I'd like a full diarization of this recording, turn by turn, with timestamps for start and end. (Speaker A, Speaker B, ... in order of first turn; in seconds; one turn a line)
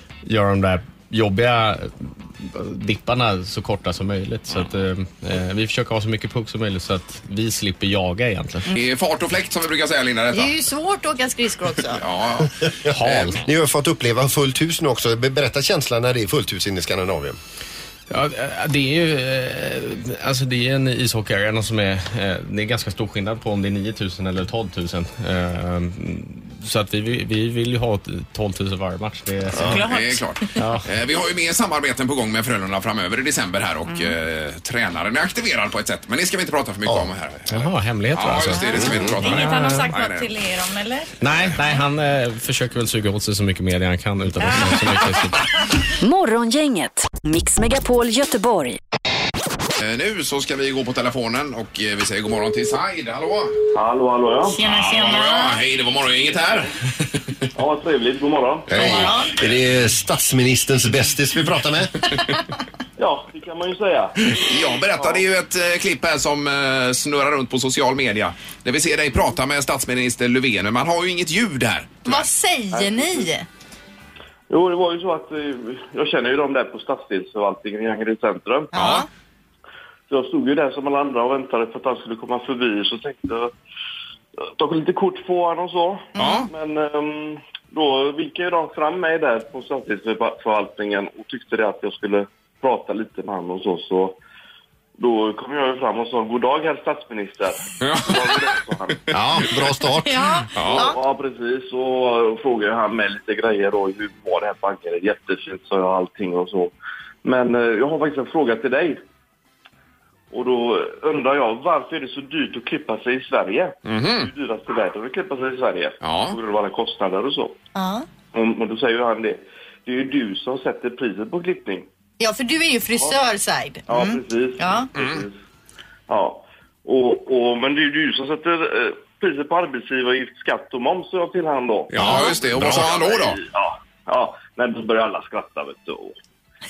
Speaker A: 0.2-8.7
Speaker B: 8.7-10.5
Speaker C: 10.3-12.0
Speaker B: 11.9-13.4
Speaker D: 12.6-17.4
Speaker A: 18.1-29.9
Speaker C: 29.6-30.6
Speaker B: 29.9-40.3
Speaker A: 30.6-30.9
Speaker C: 33.9-34.1
Speaker D: 36.9-37.1
Speaker A: 37.5-39.9
Speaker C: 38.5-41.1
Speaker D: 38.7-39.2
Speaker A: 41.2-45.5
Speaker E: 46.0-48.8
Speaker B: 49.8-53.6
Speaker F: 53.7-54.6
Speaker C: 54.4-55.6
Speaker B: 54.6-57.4
Speaker F: 57.5-58.8
Speaker D: 58.7-61.9
Speaker C: 58.7-59.4
Speaker F: 63.0-65.2
Speaker B: 64.3-72.2
Speaker C: 72.0-73.5
Speaker F: 72.7-73.3
Speaker F: 74.5-78.7
Speaker C: 78.7-79.1
Speaker B: 78.7-79.0
Speaker F: 80.1-83.5
Speaker F: 84.5-94.2
Speaker C: 86.1-86.5
Speaker B: 86.2-86.5
Speaker F: 95.0-99.1
Speaker B: 97.8-98.3
Speaker D: 99.1-100.2
Speaker C: 100.0-101.0
Speaker B: 100.5-100.9
Speaker F: 100.6-109.0
Speaker F: 110.3-117.6
Speaker B: 113.8-114.3
Speaker B: 116.0-116.4
Speaker C: 117.7-118.0
Speaker F: 118.3-121.9
Speaker C: 122.2-124.9
Speaker F: 123.9-125.4
Speaker B: 124.9-125.2
Speaker F: 126.1-136.2
Speaker B: 131.9-133.4
Speaker D: 132.0-132.9